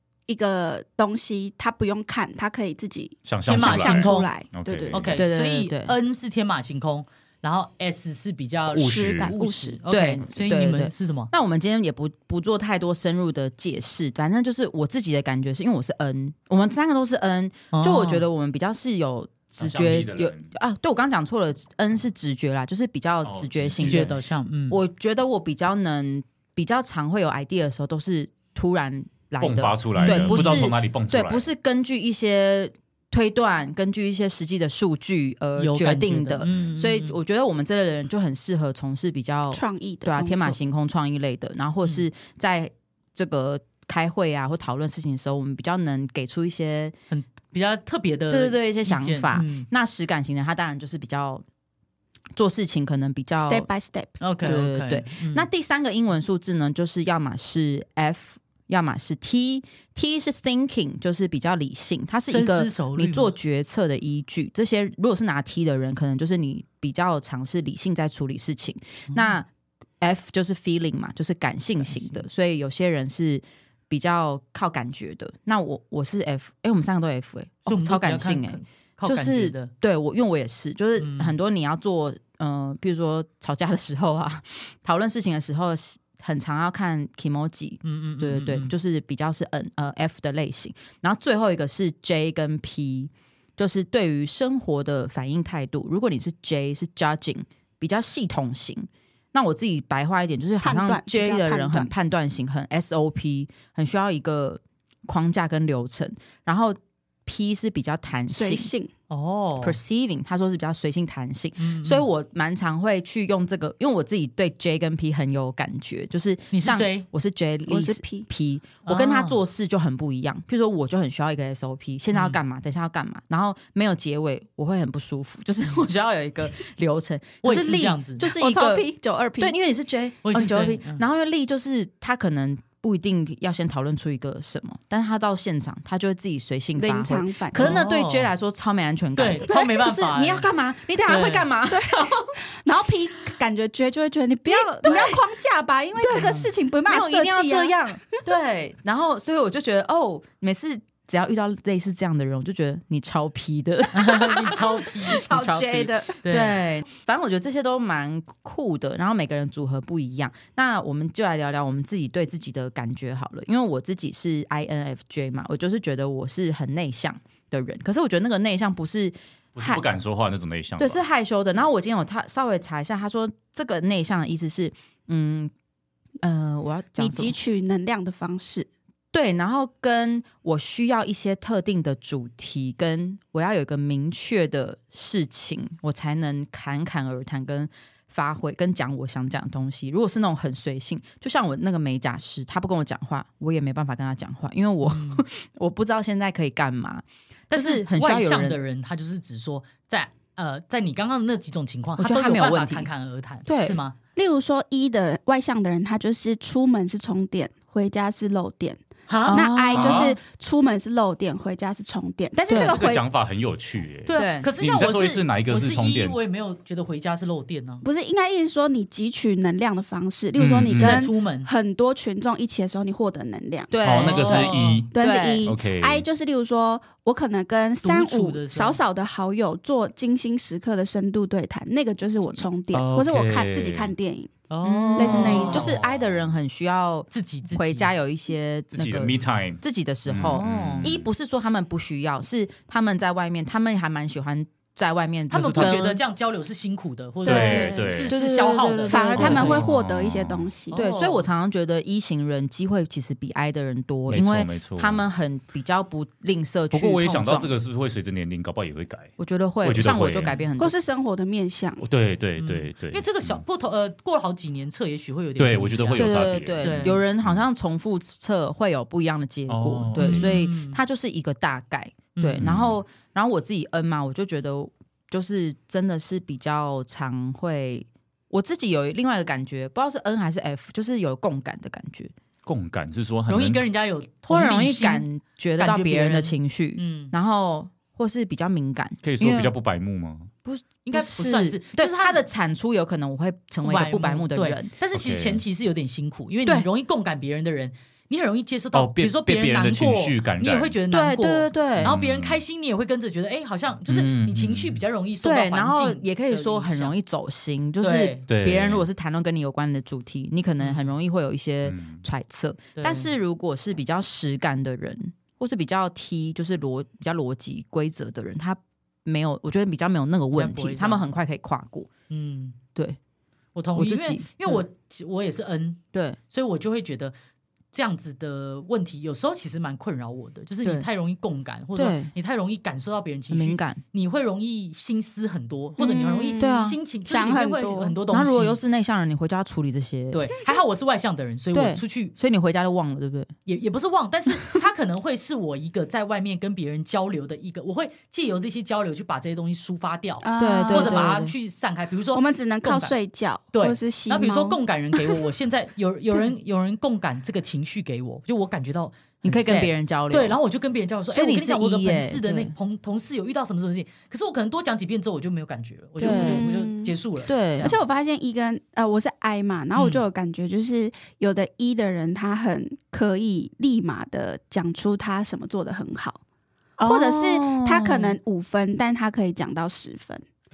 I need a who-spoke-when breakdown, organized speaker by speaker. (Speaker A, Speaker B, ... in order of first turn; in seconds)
Speaker A: 0.3-5.0, 8.7-9.8, 39.5-40.5, 53.4-54.6, 100.6-101.9, 108.3-108.9, 117.7-118.3, 128.2-129.5, 136.8-137.8, 141.7-148.2, 155.0-156.1, 177.0-178.7, 204.2-213.0, 217.8-234.3, 234.9-235.8, 247.2-247.9, 248.8-250.8, 260.6-261.8, 337.1-338.0, 350.2-351.1, 352.1-355.2, 366.0-366.9, 367.6-376.2, 376.8-380.2
Speaker B: 3.3-5.1, 8.8-9.3, 19.6-20.4, 23.2-23.9, 29.4-31.4, 169.6-171.0, 209.7-210.1, 212.5-216.2, 220.3-221.0, 223.8-226.0, 232.7-233.9, 235.1-236.2, 238.7-241.1, 245.5-245.8, 247.3-248.1, 249.2-250.5, 254.1-255.0, 256.7-259.1, 259.6-260.3, 261.8-263.4, 265.4-267.4, 269.5-270.3, 272.4-272.7, 282.4-283.6, 289.0-290.3, 295.0-295.4, 298.7-300.8, 301.8-302.4, 303.9-304.8, 308.3-308.9, 311.6-312.0
Speaker C: 3.5-4.3, 4.9-11.3, 17.7-18.2, 23.8-24.8, 29.9-30.6, 35.6-37.2, 47.1-49.7, 54.2-55.5, 62.3-63.3, 71.8-72.2, 77.7-79.7, 81.0-81.3, 87.8-88.7, 109.1-109.8, 111.6-112.1, 116.5-117.1, 118.8-119.4, 122.1-122.4, 127.4-128.2, 130.2-131.0, 137.5-138.3, 139.2-140.5, 141.1-141.4, 153.9-155.2, 156.2-156.6, 194.8-195.2, 197.5-203.9, 209.1-209.5, 214.1-217.8, 220.7-221.5, 224.1-224.8, 227.8-228.8, 234.5-235.6, 237.1-237.9, 240.3-241.0, 245.3-249.6, 250.7-251.3, 262.4-267.0, 269.9-270.8, 272.1-272.4, 283.3-285.1, 285.6-287.1, 290.8-292.2, 293.6-306.9, 307.8-308.2, 312.8-313.1, 320.3-321.1, 322.1-322.6, 323.5-327.1, 327.7-338.6, 340.1-342.1, 343.5-352.9, 353.5-367.7
Speaker D: 5.1-5.9, 9.9-24.1, 24.7-46.9, 48.3-51.4, 52.4-53.7, 54.4-69.5, 70.0-108.7, 109.6-128.8, 129.4-142.3, 144.5-145.2, 146.0-169.8, 170.8-175.5, 176.2-177.3, 179.1-198.6, 202.0-202.9, 203.4-203.8, 209.3-210.2, 212.4-212.7, 214.1-214.5, 223.7-225.5, 234.6-246.0, 247.3-249.6, 250.7-257.5, 259.2-260.8, 266.0-282.1, 284.3-289.5, 290.4-294.7, 300.9-301.9, 305.2-321.9, 323.7-324.6, 331.8-332.1, 333.3-333.8, 335.8-336.8, 338.1-340.3, 341.5-343.3, 350.4-351.3, 359.2-360.4, 361.1-362.5, 366.0-366.4, 367.2-367.8, 376.8-378.2